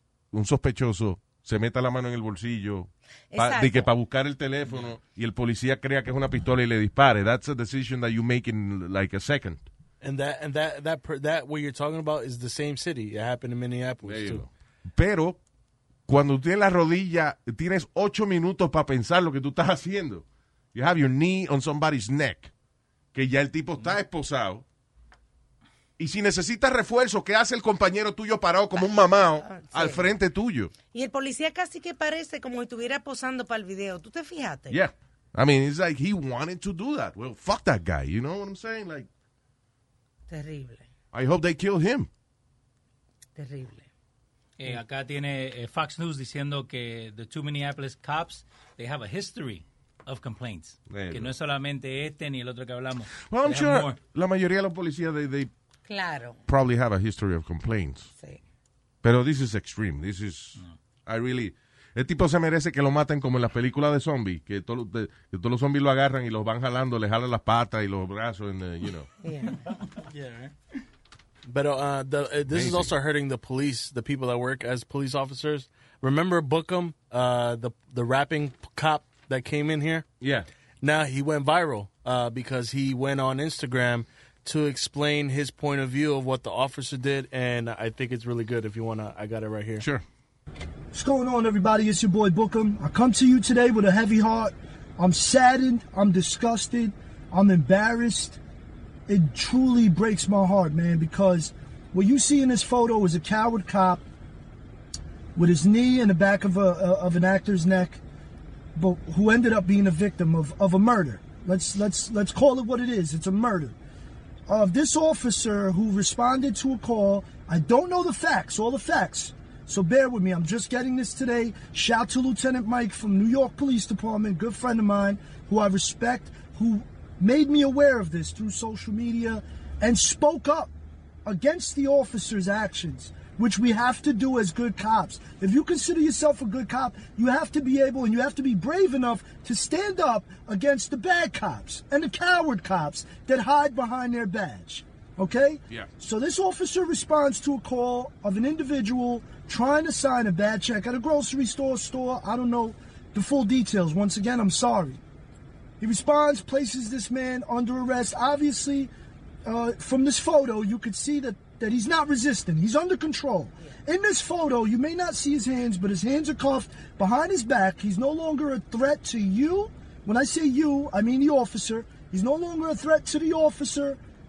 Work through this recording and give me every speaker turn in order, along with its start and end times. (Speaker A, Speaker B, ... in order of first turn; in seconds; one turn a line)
Speaker A: 0.3-9.6
Speaker B: 3.3-3.9
Speaker C: 10.0-14.4
Speaker A: 14.0-15.4
Speaker A: 16.1-22.5
Speaker A: 23.1-24.6
Speaker A: 26.0-30.7
Speaker B: 28.7-30.1
Speaker B: 30.9-34.8
Speaker A: 34.7-39.1
Speaker B: 40.3-40.9
Speaker A: 41.1-42.1
Speaker B: 43.4-43.9
Speaker D: 44.6-54.0
Speaker A: 50.9-51.3
Speaker A: 53.2-55.5
Speaker B: 55.9-56.4
Speaker A: 56.5-58.1
Speaker A: 59.0-69.1
Speaker B: 69.2-69.6
Speaker C: 70.0-70.5
Speaker C: 71.5-80.0
Speaker A: 72.5-72.9
Speaker A: 80.2-80.5
Speaker C: 80.8-89.8
Speaker E: 90.9-98.4
Speaker E: 99.1-104.0
Speaker E: 105.3-108.0
Speaker E: 108.8-113.8
Speaker E: 114.5-130.7
Speaker E: 131.2-155.0
Speaker E: 155.8-158.9
Speaker E: 159.4-174.0